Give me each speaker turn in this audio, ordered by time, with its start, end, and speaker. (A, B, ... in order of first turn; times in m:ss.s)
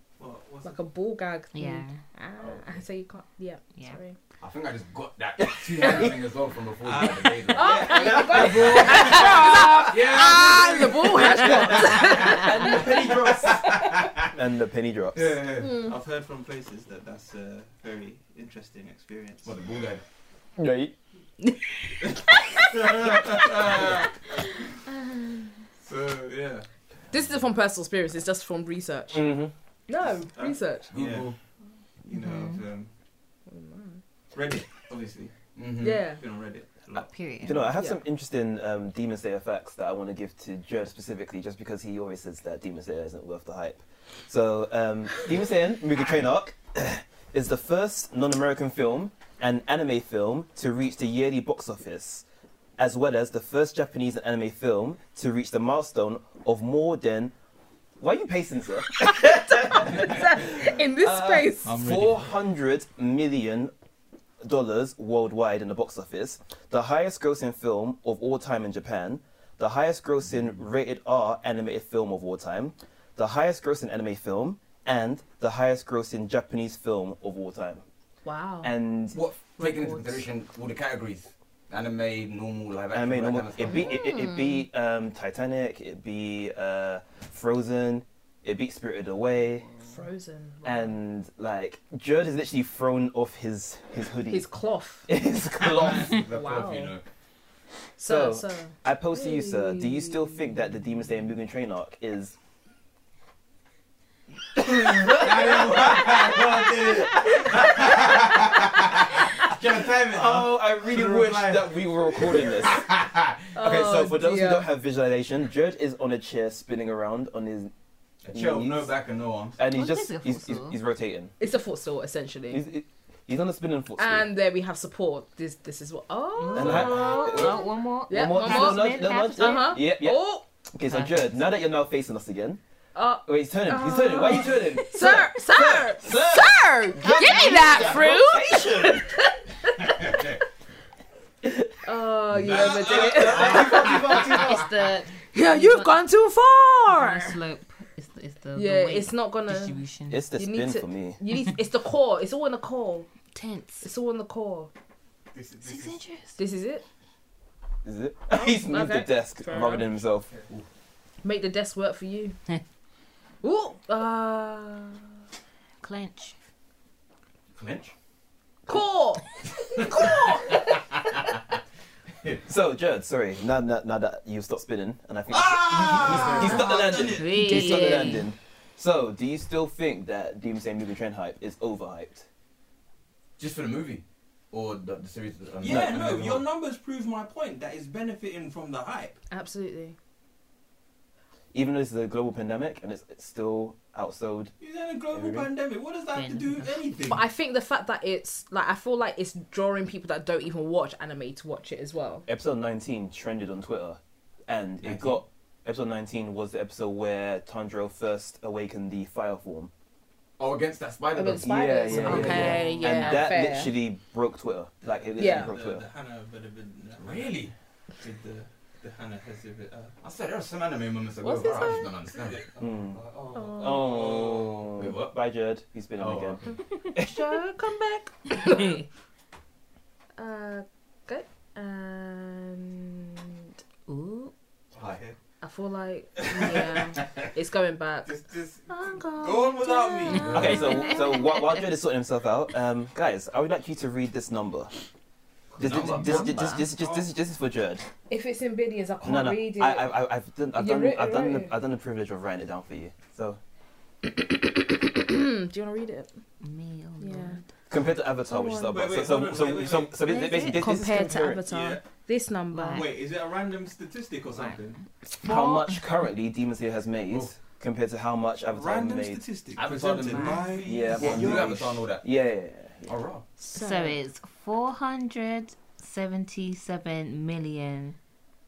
0:00.2-0:00.8 A
0:00.6-0:04.2 B
0:01.5-0:02.0 C
0:02.4-0:02.7 D
0:04.4-0:14.3 D
0:05.4-0:06.1 E
0:06.8-0:09.7 A
0:07.5-0:13.1 B
0:08.2-0:09.3 E
0:11.4-0:13.6 A
0:11.8-0:12.1 E
0:12.6-0:13.5 E
0:14.2-0:15.4 E
0:15.1-0:15.8 D
0:15.6-0:15.9 B
0:15.7-0:19.6 A
0:19.4-0:20.0 D
0:20.6-0:21.0 E
0:22.3-0:22.7 B
0:22.6-0:24.1 A
0:24.9-0:25.6 B
0:25.8-0:26.7 A
0:27.1-0:29.3 B
0:29.1-0:29.5 E
0:29.9-0:30.9 B
0:30.2-0:31.3 A
0:30.9-0:31.4 D
0:32.0-0:32.9 A
0:32.1-0:32.6 C
0:33.5-0:34.0 B
0:34.3-0:35.3 A
0:35.6-0:36.0 D
0:35.8-0:36.2 B
0:36.2-0:37.1 A
0:37.0-0:37.7 C
0:37.4-0:52.2 E
0:37.7-0:38.0 B
0:52.8-0:57.3 E
0:58.0-1:03.7 E
0:59.0-1:01.8 B
1:01.7-1:02.2 A
1:01.7-1:02.2 D
1:04.4-1:17.8 E
1:18.2-1:18.8 B
1:18.6-1:19.2 E
1:19.1-1:23.9 D
1:19.6-1:20.2 B
1:22.9-1:29.7 E
1:23.6-1:24.6 B
1:29.8-1:31.0 B
1:30.6-1:34.4 E
1:34.3-1:35.1 B
1:35.1-1:36.2 E
1:35.6-1:37.0 D
1:36.1-1:36.9 B
1:38.0-1:40.3 B
1:38.0-1:42.3 E
1:44.6-1:48.4 E
1:45.0-1:53.4 D
1:50.0-1:52.9 E
1:53.5-1:54.7 B
1:53.6-1:57.7 E
1:58.2-1:59.6 D
1:58.3-1:58.9 E
1:59.6-2:01.3 E
1:59.6-2:00.8 C
2:01.4-2:02.6 B
2:02.5-2:04.3 E
2:04.0-2:07.1 B
2:06.4-2:09.8 C
2:06.6-2:10.2 E
2:06.6-2:07.7 D
2:08.1-2:10.4 B
2:10.7-2:12.6 E
2:10.9-2:11.2 C
2:13.0-2:20.1 B
2:13.2-2:19.1 E
2:17.1-2:17.7 C
2:19.8-2:20.4 D
2:21.8-2:24.4 B
2:22.4-2:24.7 D
2:22.5-2:23.9 A
2:23.4-2:24.2 E
2:24.2-2:26.0 C
2:25.3-2:27.4 B
2:26.9-2:30.2 C
2:28.5-2:29.8 B
2:30.1-2:31.2 E
2:30.3-2:33.1 B
2:33.3-2:33.9 C
2:33.8-2:34.7 B
2:35.3-2:36.0 A
2:35.6-2:36.4 C
2:36.4-2:36.8 B
2:37.8-2:40.3 E
2:38.3-2:39.9 B
2:41.2-2:42.4 B
2:43.4-2:45.1 B
2:45.8-2:46.3 C
2:47.5-2:47.9 D
2:48.7-2:50.8 B
2:49.8-2:51.1 D
2:52.4-3:02.3 E
2:55.3-2:57.2 D
2:55.9-2:57.4 A
2:57.0-2:58.3 C
2:57.4-2:58.2 B
3:03.4-3:06.4 D
3:05.6-3:09.2 A
3:05.6-3:06.2 E
3:09.3-3:10.0 B
3:11.5-3:14.5 E
3:14.6-3:17.3 A
3:15.1-3:15.5 D
3:16.1-3:16.7 C
3:17.1-3:22.3 B
3:22.3-3:29.7 E
3:24.8-3:25.2 D
3:30.4-3:32.7 D
3:31.1-3:33.7 B
3:31.4-3:35.8 E
3:32.1-3:33.1 C
3:32.1-3:32.6 A
3:34.8-3:37.4 A
3:35.2-3:35.5 B
3:37.0-3:37.5 D
3:38.0-3:40.0 A
3:40.0-3:42.4 D
3:41.2-3:41.9 B
3:42.2-3:44.7 A
3:42.6-3:43.0 E
3:43.3-3:43.9 B
3:43.6-3:47.2 E
3:44.7-3:45.2 D
3:46.0-3:46.5 D
3:47.0-3:48.8 B
3:50.2-3:53.5 B
3:53.9-3:54.3 C
3:54.8-3:55.2 A
3:55.4-4:01.4 B
3:56.4-3:57.3 D
3:58.0-4:00.6 A
4:00.1-4:01.5 C
4:00.2-4:00.6 D
4:00.3-4:04.7 E
4:05.5-4:07.1 A
4:05.6-4:07.9 E
4:05.6-4:06.6 D
4:05.9-4:06.7 C
4:08.1-4:10.0 B
4:09.0-4:13.4 E
4:10.5-4:11.6 B
4:14.7-4:16.1 B
4:16.4-4:17.4 C
4:17.0-4:17.4 B
4:17.7-4:21.4 E
4:18.3-4:19.0 B
4:18.7-4:20.0 A
4:20.0-4:20.9 C
4:20.2-4:22.9 B
4:21.5-4:21.8 A
4:22.5-4:22.9 C
4:22.7-4:24.8 A
4:24.3-4:24.6 C
4:25.2-4:29.2 E
4:25.2-4:25.8 C
4:28.5-4:31.8 A
4:29.6-4:32.1 D
4:30.0-4:30.5 B
4:30.6-4:32.9 E
4:32.9-4:33.2 D
4:33.4-4:34.0 B
4:33.5-4:38.0 C